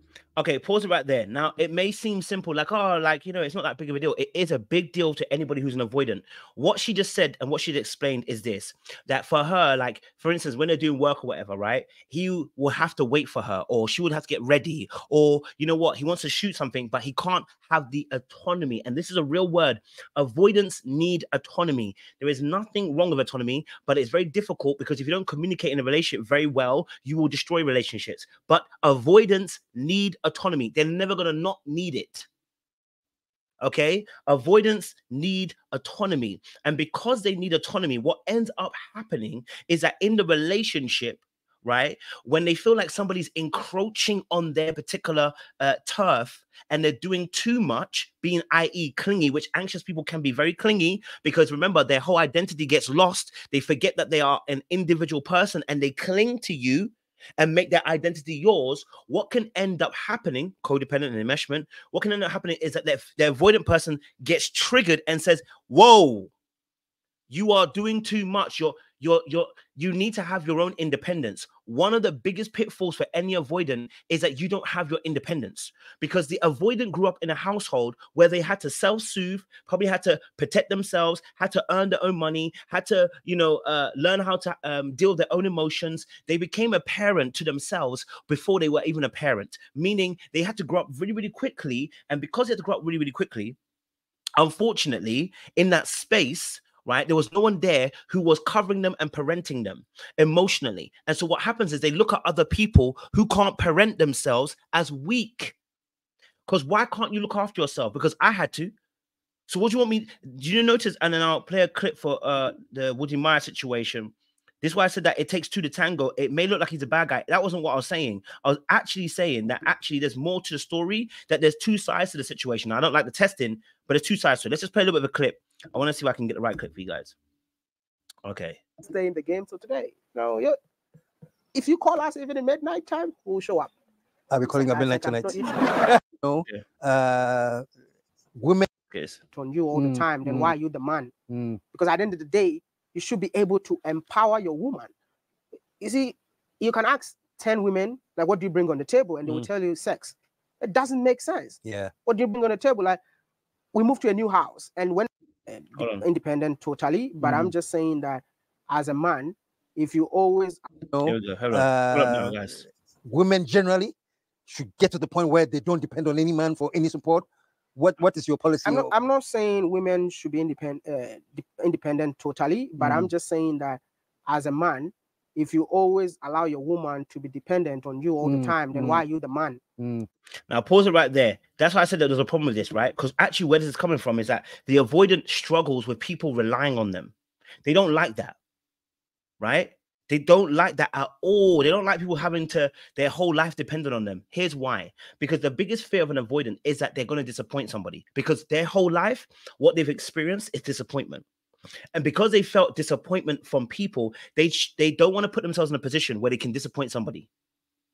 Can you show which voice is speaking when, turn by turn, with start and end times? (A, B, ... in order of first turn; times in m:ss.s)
0:00.4-0:32.3 A
0:33.6-1:06.3 A
1:07.3-1:33.6 A
1:34.4-1:45.6 A
1:46.5-1:48.7 A
1:49.5-2:07.1 A
2:08.2-2:08.6 A
2:08.8-2:10.6 B
2:11.5-2:13.7 B
2:14.3-2:17.6 C
2:14.5-2:15.8 B
2:18.4-2:18.7 C
2:18.9-2:19.2 A
2:19.3-2:21.1 B
2:19.7-2:20.5 C
2:21.3-2:21.6 C
2:21.7-2:24.9 B
2:25.8-2:33.0 B
2:31.6-2:31.9 C
2:33.7-2:40.6 B
2:35.8-2:36.0 A
2:37.2-2:37.5 C
2:40.9-2:42.4 C
2:41.0-2:42.6 A
2:43.0-2:43.9 C
2:44.5-2:48.9 C
2:48.6-2:59.6 B
2:52.8-2:53.1 C
2:58.2-2:59.0 C
2:59.8-3:00.1 C
3:00.5-3:07.1 A
3:07.6-3:08.3 A
3:09.4-3:21.2 A
3:21.9-3:27.3 A